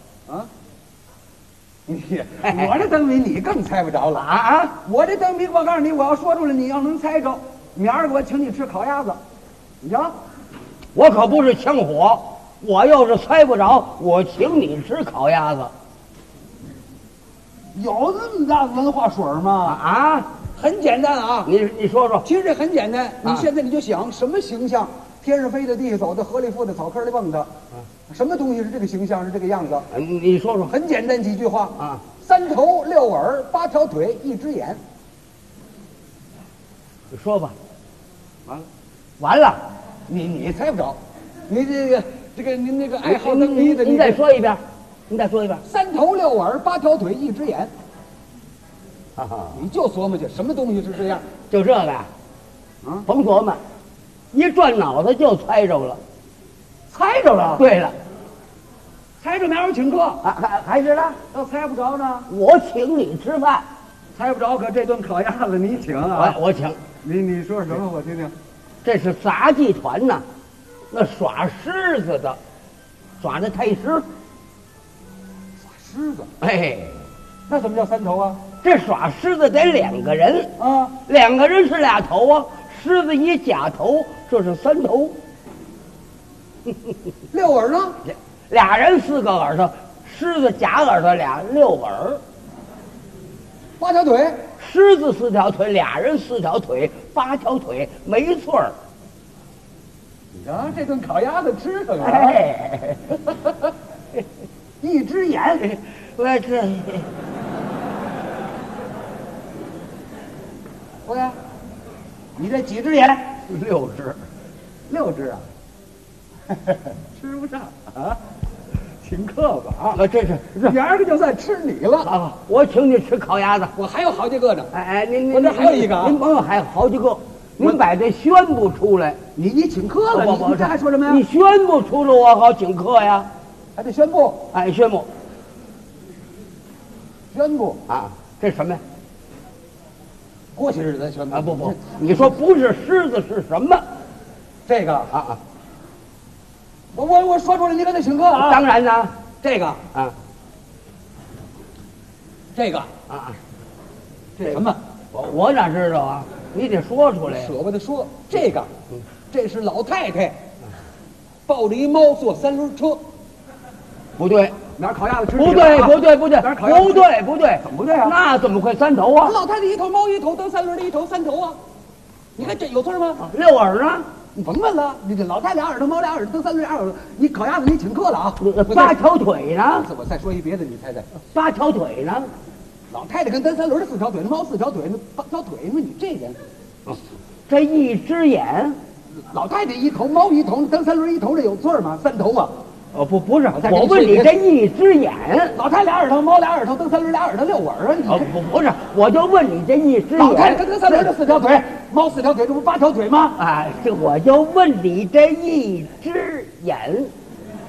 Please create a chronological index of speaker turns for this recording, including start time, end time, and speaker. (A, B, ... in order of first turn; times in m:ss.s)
0:01.9-0:04.3 A
0:02.4-0:02.8 B
0:04.1-0:04.7 B
0:04.8-0:09.2 A
0:09.8-0:10.1 A
0:10.9-0:15.7 B
0:17.7-0:19.8 A
0:19.6-0:20.3 B
0:20.5-0:21.5 A
0:21.4-0:22.2 B
0:22.2-0:27.5 A
0:28.1-0:29.9 A
0:29.9-0:30.7 B
0:30.6-0:34.8 A
0:37.1-0:37.5 B
0:39.2-0:39.6 B
0:40.1-0:44.2 A
0:43.0-0:45.6 B
0:45.6-0:47.7 A
0:49.2-0:49.6 B
0:49.5-0:51.2 A
0:51.5-0:52.1 B
0:52.8-0:53.1 A
0:53.1-0:53.6 B
0:54.3-0:56.0 B
0:56.9-0:57.6 A
0:57.6-0:57.9 B
0:59.2-1:00.2 A
1:00.2-1:01.2 B
1:01.3-1:02.3 A
1:02.3-1:03.6 B
1:04.1-1:06.4 A
1:06.1-1:06.8 B
1:07.0-1:08.3 A
1:08.8-1:10.2 B
1:10.9-1:12.4 B
1:13.2-1:14.0 B
1:15.6-1:16.3 A
1:16.4-1:17.0 B
1:17.5-1:18.4 A
1:18.6-1:20.5 B
1:20.6-1:21.0 A
1:21.1-1:25.1 B
1:27.3-1:28.0 A
1:28.1-1:32.2 B
1:33.8-1:34.4 A
1:34.6-1:38.7 B
1:40.3-1:42.4 A
1:42.0-1:43.2 B
1:44.8-1:45.7 A
1:45.6-1:47.1 B
1:51.0-1:51.4 A
1:52.4-1:53.4 A
1:53.5-1:54.2 B
1:54.9-1:55.5 A
1:56.5-1:58.2 A
1:59.0-2:00.0 A
1:59.9-2:00.7 B
2:00.6-2:02.1 A
2:02.0-2:03.7 B
2:03.7-2:04.7 A
2:04.7-2:09.2 B
2:05.3-2:06.2 A
2:09.3-2:11.2 A
2:10.1-2:13.3 B
2:13.8-2:14.5 A
2:14.5-2:15.1 B
2:17.3-2:17.8 A
2:17.9-2:18.8 B
2:20.5-2:22.3 A
2:21.3-2:23.8 B
2:24.7-2:25.1 A
2:25.1-2:25.4 B
2:26.9-2:28.6 A
2:28.4-2:29.1 B
2:29.4-2:29.8 A
2:32.5-2:32.9 A
2:33.1-2:33.4 B
2:34.4-2:34.8 A
2:35.1-2:37.5 B
2:37.2-2:38.7 A
2:39.3-2:40.4 A
2:41.5-2:43.0 A
2:44.2-2:44.6 B
2:44.7-2:48.2 A
2:45.4-2:49.4 B
2:49.2-2:51.6 A
2:52.4-2:53.2 A
2:53.2-2:54.0 B
2:54.3-2:59.0 A
2:58.4-2:59.9 B
2:59.7-3:01.1 A
3:01.3-3:02.3 B
3:02.9-3:06.4 A
3:07.5-3:08.8 B
3:09.2-3:12.5 A
3:12.9-3:15.5 B
3:13.5-3:14.4 A
3:15.5-3:18.3 A
3:18.1-3:21.1 B
3:20.1-3:23.4 A
3:23.4-3:27.1 B